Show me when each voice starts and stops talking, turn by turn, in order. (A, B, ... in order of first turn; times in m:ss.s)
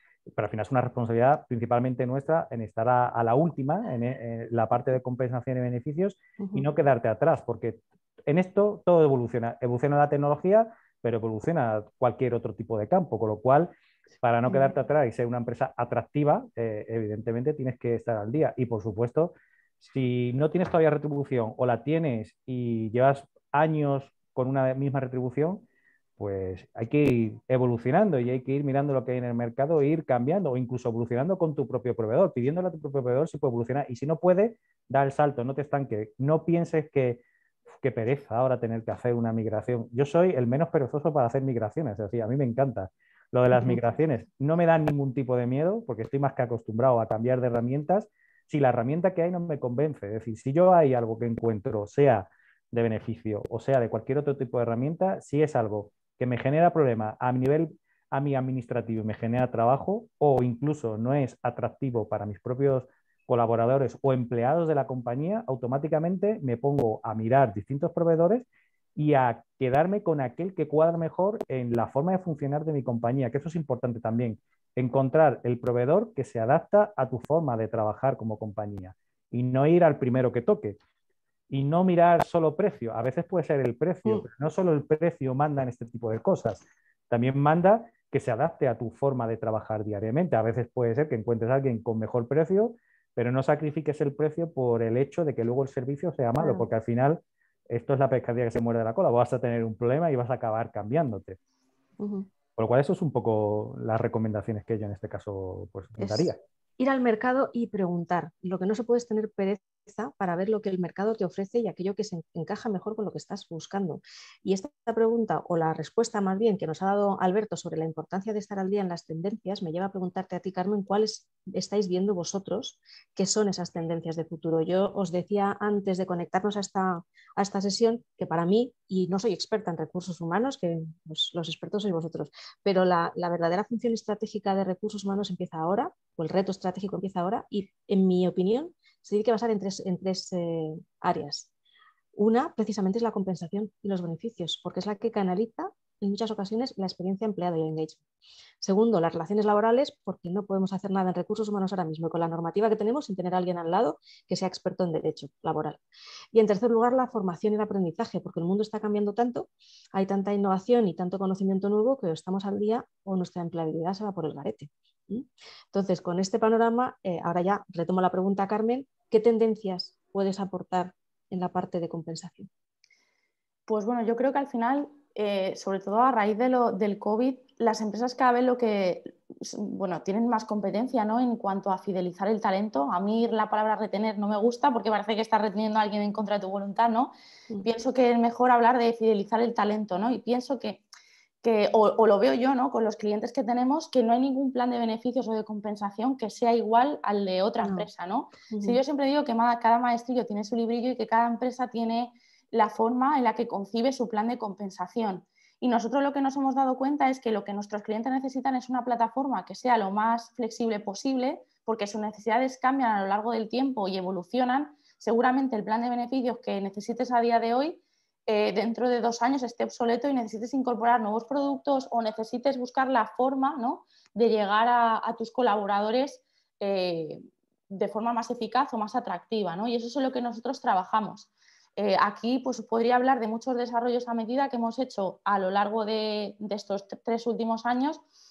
0:00.3-0:25.6 A
0:06.4-0:06.6 B
0:26.2-0:37.2 A
0:37.8-1:20.8 A
0:43.5-0:43.8 B
1:21.5-1:41.4 A
1:36.4-1:36.6 B
1:42.0-1:42.3 B
1:42.6-1:46.4 A
1:46.0-2:21.5 B
2:22.1-2:28.0 B
2:28.6-2:35.8 B
2:36.3-2:52.5 B
2:53.7-3:10.8 C
3:11.4-3:58.0 C
3:17.6-3:17.9 B
3:18.5-3:18.8 B